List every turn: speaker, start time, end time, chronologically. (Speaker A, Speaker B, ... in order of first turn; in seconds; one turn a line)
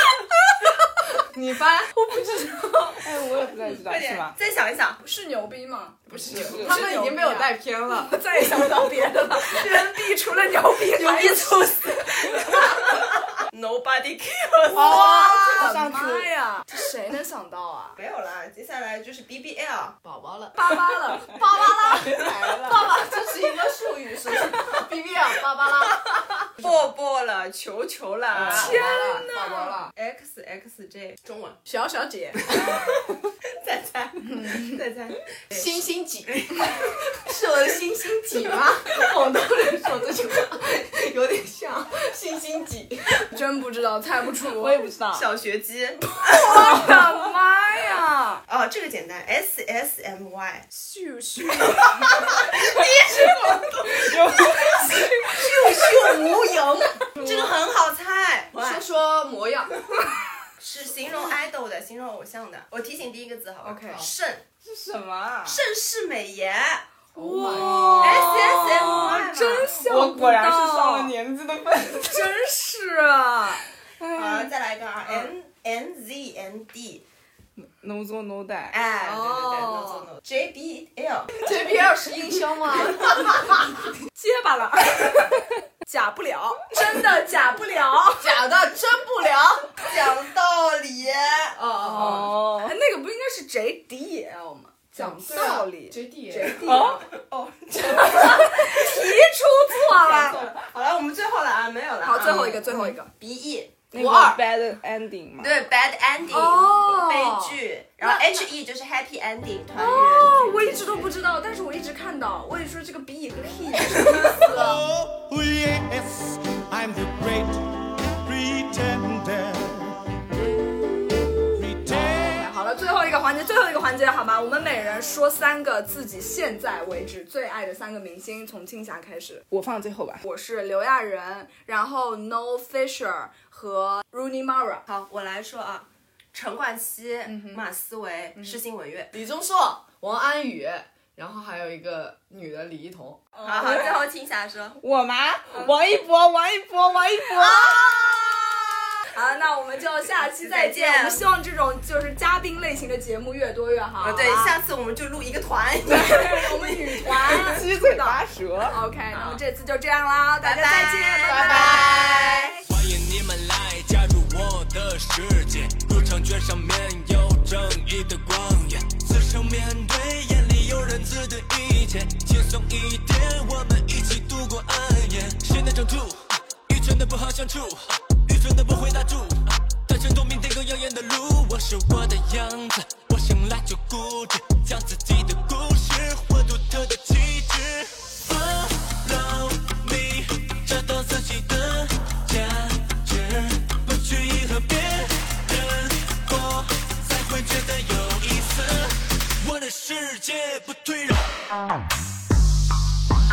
Speaker A: 1.3-1.9
Speaker B: 1.9-3.0
Speaker C: 3.0-4.4
Speaker D: 3.7-5.0
Speaker B: 5.0-12.9
Speaker C: 6.3-6.7
Speaker A: 6.3-8.1
Speaker D: 12.8-15.8
Speaker B: 14.7-18.0
Speaker C: 14.8-16.3
Speaker D: 18.0-20.0
Speaker A: 20.0-26.8
Speaker B: 20.5-23.3
Speaker C: 21.9-22.9
Speaker D: 26.6-28.8
Speaker A: 28.3-29.9
Speaker B: 28.5-29.9
Speaker D: 29.9-31.6
Speaker B: 31.7-32.4
Speaker D: 32.4-36.9
Speaker B: 34.2-34.8
Speaker A: 35.5-43.3
Speaker B: 43.3-44.9
Speaker C: 44.6-45.3
Speaker D: 45.1-46.9
Speaker B: 46.2-48.4
Speaker D: 48.5-50.7
Speaker B: 50.7-52.4
Speaker D: 51.8-53.4
Speaker C: 52.6-53.0
Speaker B: 53.0-53.7
Speaker C: 53.9-55.0
Speaker B: 54.3-55.9
Speaker A: 55.3-57.3
Speaker D: 57.1-58.9
Speaker B: 57.2-57.4
Speaker A: 58.5-59.8
Speaker D: 60.6-64.4
Speaker B: 63.6-64.0
Speaker C: 64.6-65.6
Speaker D: 65.5-66.9
Speaker A: 67.2-68.1
Speaker B: 67.2-71.2
Speaker C: 67.4-72.3
Speaker D: 68.0-69.7
Speaker B: 72.0-73.6
Speaker C: 74.0-74.5
Speaker D: 74.1-77.0
Speaker C: 77.6-78.8
Speaker D: 78.7-81.3
Speaker B: 79.0-80.1
Speaker A: 81.4-83.7
Speaker B: 81.5-83.3
Speaker B: 84.1-88.4
Speaker A: 88.2-89.8
Speaker D: 89.8-91.6
Speaker A: 91.5-92.3
Speaker C: 92.0-92.8
Speaker B: 92.0-97.0
Speaker A: 95.0-96.6
Speaker D: 95.3-95.7
Speaker D: 96.5-99.0
Speaker C: 96.6-97.0
Speaker B: 97.8-100.5
Speaker D: 99.8-103.8
Speaker B: 102.0-103.1
Speaker C: 103.9-105.7
Speaker A: 103.9-104.4
Speaker D: 105.4-111.2
Speaker B: 106.3-108.3
Speaker B: 109.8-114.9
Speaker E: 115.0-117.6
Speaker E: 118.2-119.8
Speaker B: 121.8-129.4
Speaker C: 129.5-130.2
Speaker B: 130.2-134.8
Speaker D: 134.9-139.1
Speaker B: 137.2-137.6
Speaker A: 139.1-143.3
Speaker B: 143.3-144.0
Speaker D: 143.4-144.8
Speaker C: 144.8-148.3
Speaker D: 147.6-148.3
Speaker B: 149.1-154.6
Speaker D: 150.4-151.2
Speaker D: 154.0-157.4
Speaker B: 155.9-162.6
Speaker C: 157.2-158.8
Speaker D: 159.1-159.4
Speaker D: 160.4-162.6
Speaker A: 161.3-162.0
Speaker F: 162.7-201.4